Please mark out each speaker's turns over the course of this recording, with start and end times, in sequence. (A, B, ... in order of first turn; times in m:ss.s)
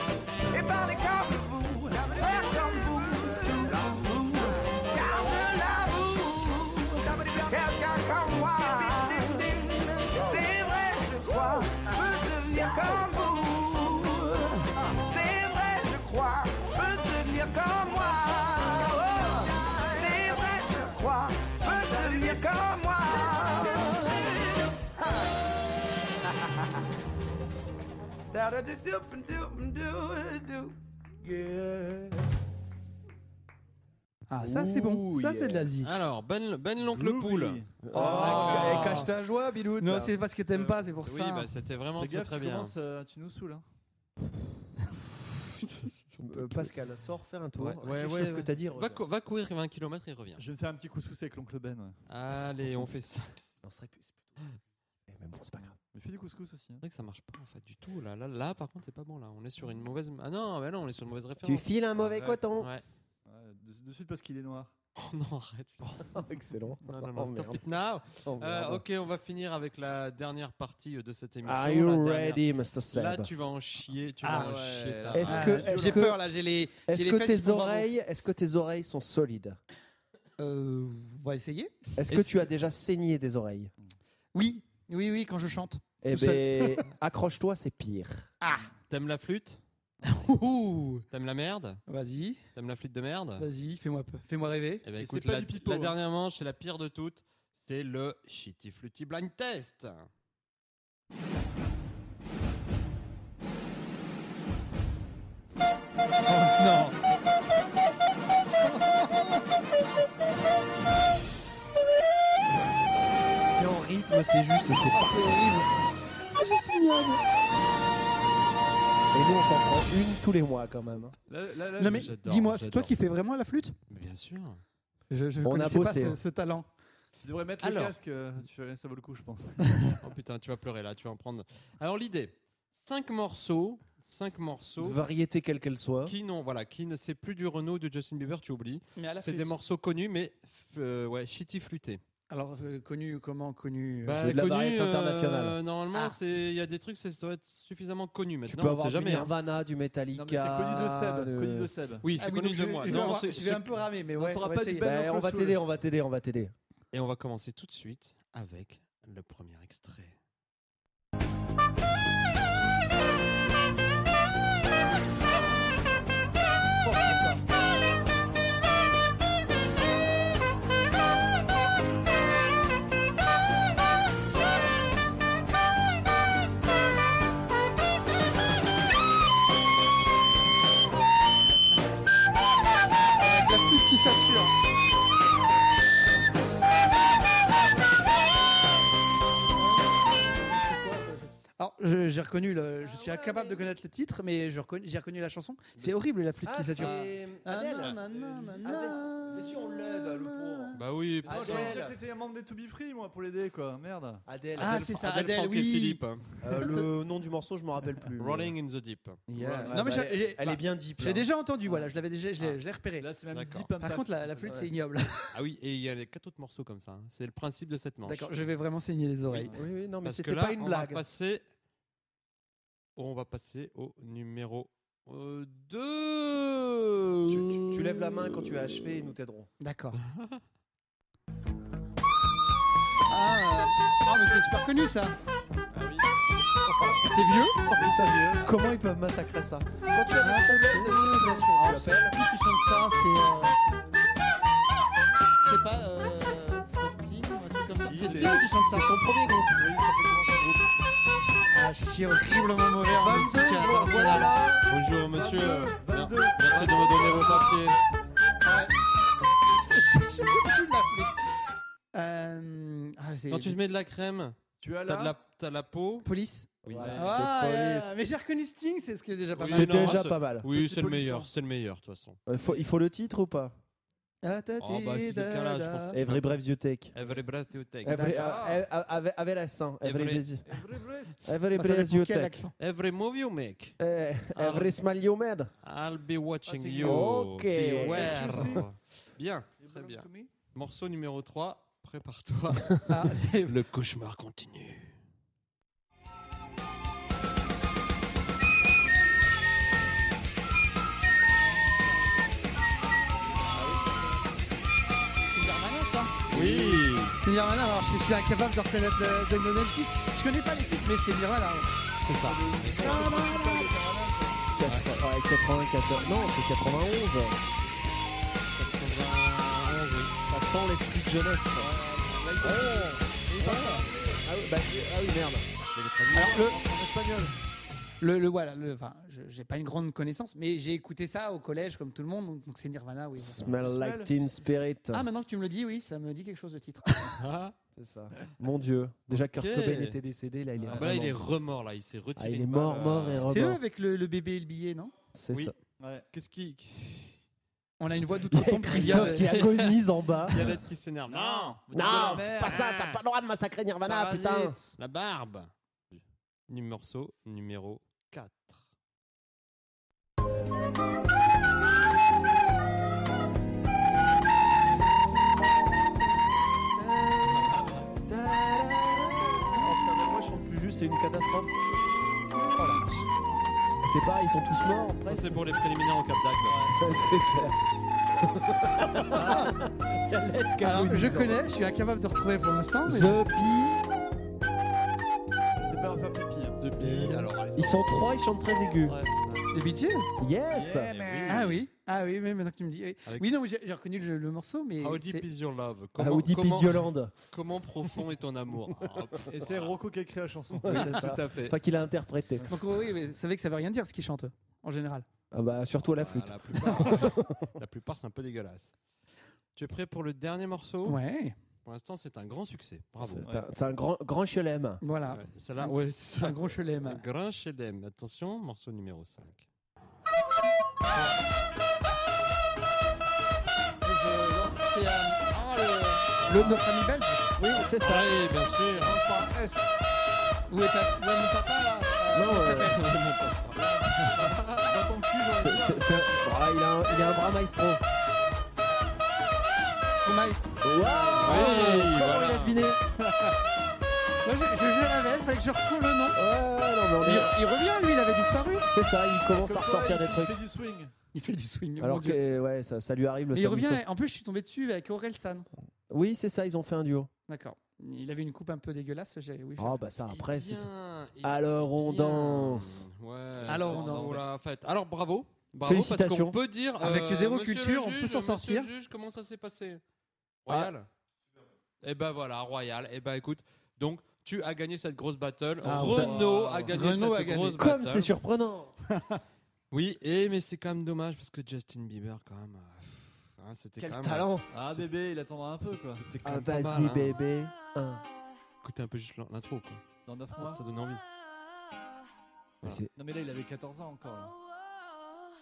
0:00.5-0:25.3 A
0:28.2-0:32.1 A
0:34.3-0:35.9 B
0:34.4-0:35.7 C
0:35.8-0:39.0 D
0:36.8-0:38.9 E
0:37.8-0:40.2 C
0:37.9-0:39.1 B
0:39.8-0:41.5 B
0:41.0-0:42.7 D
0:41.9-0:43.6 E
0:45.7-0:46.6 D
0:46.2-0:49.0 C
0:47.6-0:50.4 D
0:50.4-0:52.0 E
0:52.1-0:53.3 D
0:53.6-0:54.4 C
0:55.1-0:55.7 C
0:55.9-0:56.8 E
0:56.8-1:01.7 D
1:01.4-1:02.7 C
1:02.0-1:02.4 E
1:02.6-1:02.8 D
1:03.2-1:04.7 E
1:05.0-1:06.2 D
1:06.1-1:07.6 C
1:06.9-1:15.6 D
1:08.1-1:08.8 C
1:11.4-1:13.3 C
1:14.2-1:14.6 B
1:14.2-1:16.0 E
1:15.1-1:16.2 C
1:15.2-1:17.9 B
1:16.8-1:19.6 C
1:20.4-1:21.7 B
1:22.0-1:23.7 C
1:22.1-1:22.5 D
1:24.3-1:26.8 B
1:26.0-1:28.3 C
1:28.4-1:28.7 B
1:28.9-1:29.6 D
1:30.0-1:31.0 B
1:31.1-1:31.8 D
1:31.9-1:32.4 B
1:32.5-1:33.5 D
1:33.4-1:34.8 B
1:34.8-1:40.1 D
1:35.0-1:36.0 E
1:46.3-1:46.9 B
1:48.8-1:49.2 B
1:53.4-1:55.5 C
1:54.9-1:55.7 B
1:56.3-1:57.2 B
1:59.1-2:01.1 C
2:01.3-2:02.1 E
2:01.8-2:03.7 B
2:01.8-2:02.9 D
2:03.9-2:04.6 D
2:05.1-2:06.6 B
2:05.4-2:06.2 C
2:07.2-2:10.0 E
2:07.6-2:07.9 D
2:10.0-2:15.0 D
2:14.8-2:16.2 C
2:16.0-2:22.0 D
2:19.0-2:19.6 B
2:22.3-2:24.3 B
2:24.0-2:29.3 D
2:24.1-2:25.6 C
2:28.5-2:31.7 C
2:30.1-2:32.1 E
2:32.0-2:33.7 D
2:32.2-2:34.9 B
2:32.8-2:33.1 E
2:34.1-2:35.6 E
2:34.8-2:36.5 C
2:36.9-2:40.2 D
2:46.8-2:47.4 B
3:03.2-3:04.5 B
3:09.6-3:11.0 B
3:11.6-3:20.8 B
3:12.8-3:13.7 C
3:16.4-3:18.0 C
3:18.3-3:18.6 E
3:18.6-3:22.0 C
3:20.7-3:21.8 D
3:21.2-3:24.2 E
3:24.2-3:25.1 C
3:24.6-3:26.9 B
3:24.6-3:26.2 D
3:26.4-3:28.5 C
3:28.2-3:29.2 D
3:29.3-3:33.1 B
3:29.4-3:31.3 C
3:29.4-3:29.7 E
3:33.0-3:34.7 E
3:33.3-3:33.7 D
3:33.8-3:35.3 B
3:35.3-3:38.3 D
3:38.0-3:39.5 B
3:39.3-3:39.6 E
3:39.5-3:41.1 C
3:40.0-3:41.4 D
3:43.0-3:47.6 D
3:47.3-3:49.5 C
3:49.6-3:50.0 B
3:50.1-3:50.4 D
3:53.1-3:55.1 B
3:55.7-3:56.1 E
3:56.8-3:57.1 C
3:56.8-3:58.6 E
3:57.1-3:57.6 B
3:57.6-4:02.2 C
4:00.2-4:03.6 B
4:05.4-4:08.9 B
4:07.9-4:08.4 E
4:07.9-4:09.6 C
4:09.6-4:10.7 E
4:11.5-4:14.3 B
4:13.0-4:14.6 C
4:14.7-4:17.8 D
4:15.1-4:17.7 E
4:18.4-4:18.7 B
4:19.6-4:23.6 B
4:23.3-4:26.1 D
4:24.6-4:25.2 E
4:26.0-4:29.7 B
4:26.6-4:27.0 D
4:26.7-4:27.9 C
4:26.8-4:27.2 E
4:29.4-4:32.2 D
4:29.5-4:30.5 C
4:30.4-4:31.3 E
4:32.3-4:33.5 C
4:34.2-4:36.0 B
4:34.6-4:36.3 D
4:35.9-4:36.9 C
4:36.9-4:38.2 D
4:37.8-4:40.6 C
4:37.9-4:38.6 E
4:39.8-4:40.2 D
4:40.5-4:41.2 E
4:41.2-4:42.4 C
4:41.5-4:42.5 B
4:42.6-4:43.8 D
4:43.8-4:45.5 C
4:44.4-4:44.8 D
4:45.6-4:54.9 D
4:46.5-4:48.6 E
4:46.8-4:48.6 C
4:47.8-4:48.4 B
4:49.6-4:50.3 E
4:52.9-4:53.5 B
5:03.5-5:04.0 E
5:05.3-5:06.1 B
5:06.3-5:07.2 D
5:06.3-5:06.8 C
5:07.2-5:11.7 B
5:12.0-5:12.9 D
5:12.2-5:14.5 E
5:12.8-5:13.8 C
5:14.6-5:17.4 C
5:18.5-5:20.1 D
5:20.2-5:21.7 C
5:21.6-5:24.2 E
5:22.4-5:25.5 C
5:23.4-5:23.6 B
5:25.7-5:26.4 D
5:26.1-5:26.7 B
5:26.1-5:27.3 E
5:28.0-5:33.4 B
5:33.2-5:35.0 C
5:33.4-5:34.3 E
5:34.9-5:37.2 B
5:37.2-5:37.6 D
5:37.7-5:41.2 C
5:39.1-5:40.0 D
5:40.6-5:40.8 E
5:40.7-5:43.3 D
5:42.2-5:43.6 C
5:43.3-5:44.9 B
5:45.1-5:45.5 C
5:45.8-5:46.0 E
5:46.1-5:47.2 D
5:47.8-5:49.3 B
5:48.3-5:50.4 C
5:48.7-5:53.0 D
5:51.1-5:52.6 E
5:51.7-5:54.6 C
5:53.8-5:54.6 B
5:54.8-5:55.5 D
5:56.5-5:58.7 D
6:06.5-6:11.6 C
6:12.4-6:13.0 C
6:13.8-6:15.4 C
6:15.0-6:16.6 D
6:16.4-6:16.8 E
6:16.8-6:17.6 C
6:18.2-6:21.4 C
6:19.2-6:19.5 B
6:20.6-6:23.2 B
6:22.8-6:23.8 C
6:25.6-6:26.6 E
6:26.6-6:27.9 D
6:27.6-6:29.0 C
6:28.8-6:29.1 E
6:29.5-6:30.1 B
6:30.2-6:30.9 C
6:30.5-6:31.4 E
6:30.8-6:31.6 D
6:31.2-6:35.2 B
6:34.8-6:39.8 D
6:36.0-6:37.1 C
6:39.3-6:41.0 E
6:40.6-6:42.5 C
6:40.6-6:41.6 D
6:42.5-6:45.0 B
6:45.3-6:47.5 C
6:46.0-6:48.7 D
6:49.6-6:51.0 D
6:50.8-6:51.4 B
6:51.6-6:53.2 D
6:53.0-6:54.8 C
6:54.8-6:57.0 B
6:55.1-6:59.5 D
7:03.8-7:07.3 B
7:07.4-7:08.2 C
7:07.8-7:09.0 D
7:08.7-7:09.7 E
7:10.5-7:12.8 B
7:12.1-7:12.8 C
7:12.7-7:14.6 D
7:13.5-7:15.9 E
7:15.3-7:17.8 C
7:20.0-7:21.8 B
7:20.6-7:22.8 C
7:21.2-7:22.6 D
7:24.2-7:26.2 B
7:26.1-7:27.4 C
7:27.0-7:28.7 B
7:28.6-7:30.4 C
7:29.3-7:30.9 E
7:31.1-7:32.2 B
7:31.8-7:33.8 C
7:33.3-7:35.5 B
7:35.9-7:37.1 C
7:37.3-7:39.8 B
7:39.6-7:40.7 C
7:40.1-7:49.8 D
7:41.2-7:42.8 C
7:43.4-7:44.2 E
7:43.5-7:44.2 B
7:43.7-7:44.2 C
7:45.6-7:46.4 C
7:46.8-7:48.7 B
7:50.4-7:50.9 D
7:51.8-7:58.1 D
7:55.6-7:57.6 B
7:55.8-7:56.8 E
7:57.6-7:58.7 C
7:58.9-7:59.2 B
7:59.7-8:04.8 D
8:03.8-8:04.5 C
8:04.5-8:06.1 E
8:05.6-8:07.2 D
8:06.2-8:08.0 C
8:08.6-8:09.8 D
8:10.0-8:10.6 E
8:10.4-8:11.0 D
8:12.6-8:12.9 C
8:12.9-8:14.4 E